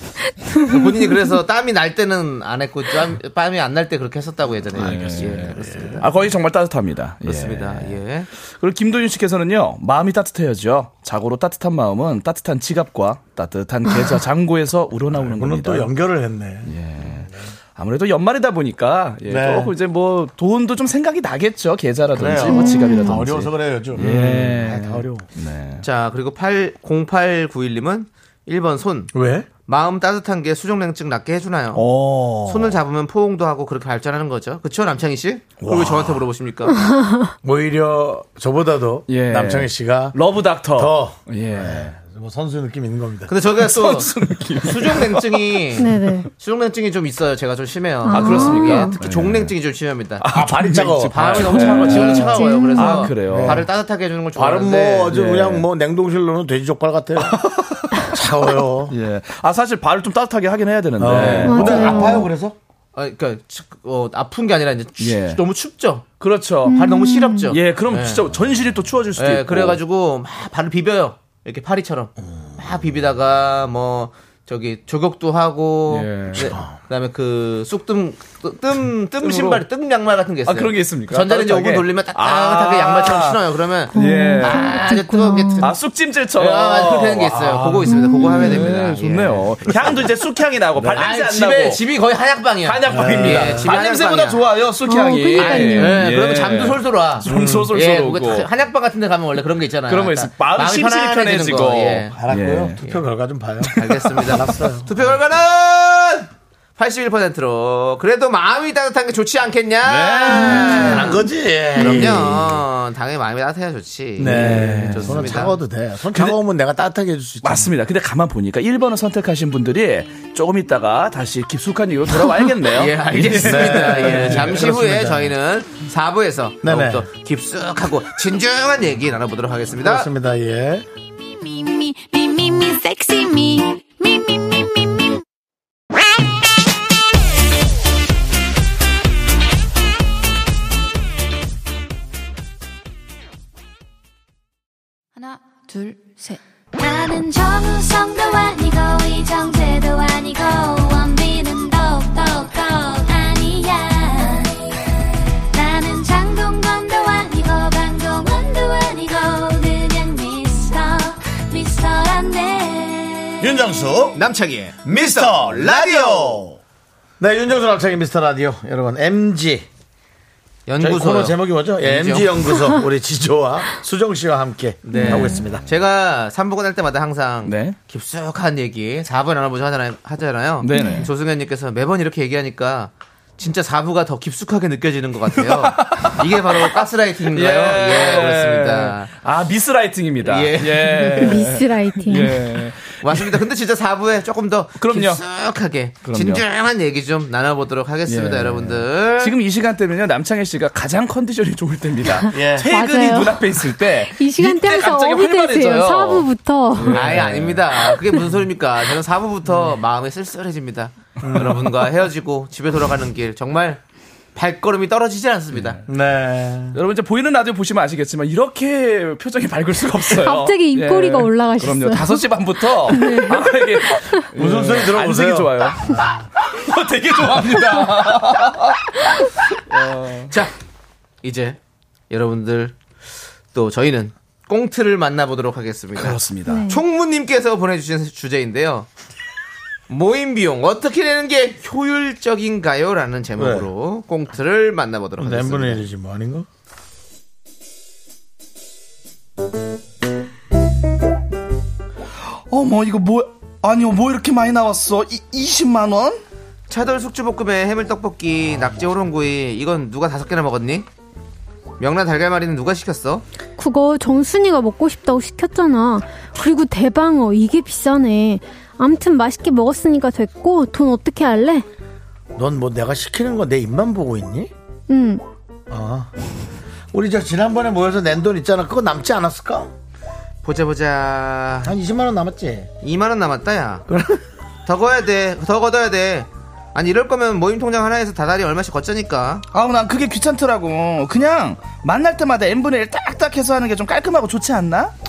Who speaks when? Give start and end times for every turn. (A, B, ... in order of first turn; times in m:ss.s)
0:00.4-0:01.4 A
0:00.6-0:06.1 B
0:04.7-0:06.1 C
0:04.7-0:15.9 D
0:07.2-0:08.3 B
0:15.1-0:17.1 C
0:16.7-0:25.8 D
0:19.3-0:19.7 C
0:22.1-0:25.3 C
0:22.4-0:23.3 A
0:25.8-0:29.1 B
0:29.1-0:29.5 C
0:29.7-0:31.8 B
0:31.7-0:32.8 D
0:32.4-0:36.8 B
0:35.6-0:36.2 D
0:36.7-0:37.3 A
0:37.4-0:40.2 C
0:39.1-0:42.0 D
0:40.7-0:43.3 C
0:43.3-0:50.3 B
0:43.5-0:45.7 D
0:45.8-0:46.3 A
0:48.0-0:49.0 A
0:48.1-0:49.6 D
0:50.2-0:53.7 D
0:50.3-0:52.3 C
0:51.1-0:55.2 B
0:51.6-0:53.2 A
0:53.2-0:53.7 C
0:54.4-0:57.5 C
0:55.1-0:55.7 D
0:57.2-0:58.2 D
0:58.0-0:59.0 C
0:58.9-1:02.0 D
1:01.0-1:02.6 C
1:01.4-1:02.3 A
1:03.0-1:06.1 B
1:05.0-1:05.4 D
1:06.2-1:06.9 D
1:06.6-1:07.5 A
1:06.7-1:08.2 B
1:07.5-1:09.8 D
1:09.2-1:25.8 B
1:15.9-1:16.6 D
1:16.4-1:16.7 C
1:19.2-1:19.6 D
1:20.5-1:23.4 D
1:23.9-1:25.7 A
1:23.9-1:24.9 D
1:25.6-1:31.8 D
1:26.4-1:30.1 B
1:27.9-1:28.7 A
1:30.9-1:34.4 B
1:32.6-1:38.5 D
1:32.9-1:33.7 C
1:34.9-1:36.0 A
1:35.4-1:42.2 B
1:37.2-1:37.7 C
1:39.9-1:42.8 D
1:42.1-1:44.9 C
1:43.7-1:51.2 B
1:49.8-1:51.0 D
1:50.3-1:51.1 A
1:50.8-1:52.6 C
1:51.8-1:55.6 B
1:54.2-1:57.7 C
1:54.2-1:55.4 D
1:57.4-2:05.0 D
2:02.7-2:10.1 B
2:03.2-2:05.3 C
2:06.6-2:07.1 C
2:09.8-2:10.9 C
2:11.2-2:14.7 E
2:25.7-2:34.7 E
2:35.5-2:43.5 E
2:43.4-2:44.2 C
2:44.2-2:46.4 B
2:44.8-2:46.6 C
2:47.2-2:49.7 C
2:50.7-2:52.5 B
2:50.8-2:55.6 C
2:52.6-2:52.8 A
2:54.9-3:09.1 B
2:54.9-2:55.4 A
2:57.4-2:57.8 D
3:00.6-3:01.1 D
3:00.7-3:01.1 A
3:05.4-3:13.4 D
3:10.2-3:11.4 B
3:11.0-3:12.6 A
3:13.0-3:19.4 B
3:14.8-3:15.2 D
3:16.0-3:16.4 D
3:18.1-3:26.2 D
3:22.1-3:27.2 A
3:22.3-3:22.7 C
3:24.8-3:26.1 B
3:26.7-3:27.6 D
3:26.9-3:33.8 B
3:31.2-3:31.6 C
3:34.4-3:35.8 B
3:35.5-3:35.8 D
3:35.9-3:36.8 C
3:36.7-3:49.0 D
3:40.0-3:44.3 A
3:44.4-3:46.2 C
3:49.7-3:50.3 D
3:50.3-3:50.5 B
3:51.2-3:51.6 B
3:52.1-3:52.8 B
3:53.5-3:58.9 B
3:56.0-3:56.7 D
3:56.5-3:56.8 A
3:59.9-4:05.8 B
4:03.4-4:03.7 C
4:05.2-4:06.5 C
4:12.5-4:16.2 D
4:16.7-4:20.9 B
4:21.8-4:23.2 B
4:23.6-4:31.7 A
4:32.4-4:34.5 C
4:34.9-4:35.2 A
4:35.7-4:36.1 C
4:36.9-4:39.7 C
4:40.4-4:41.7 B
4:41.6-4:42.7 C
4:42.8-4:43.9 B
4:43.9-4:44.2 C
4:44.7-4:49.4 B
4:49.5-4:54.9 D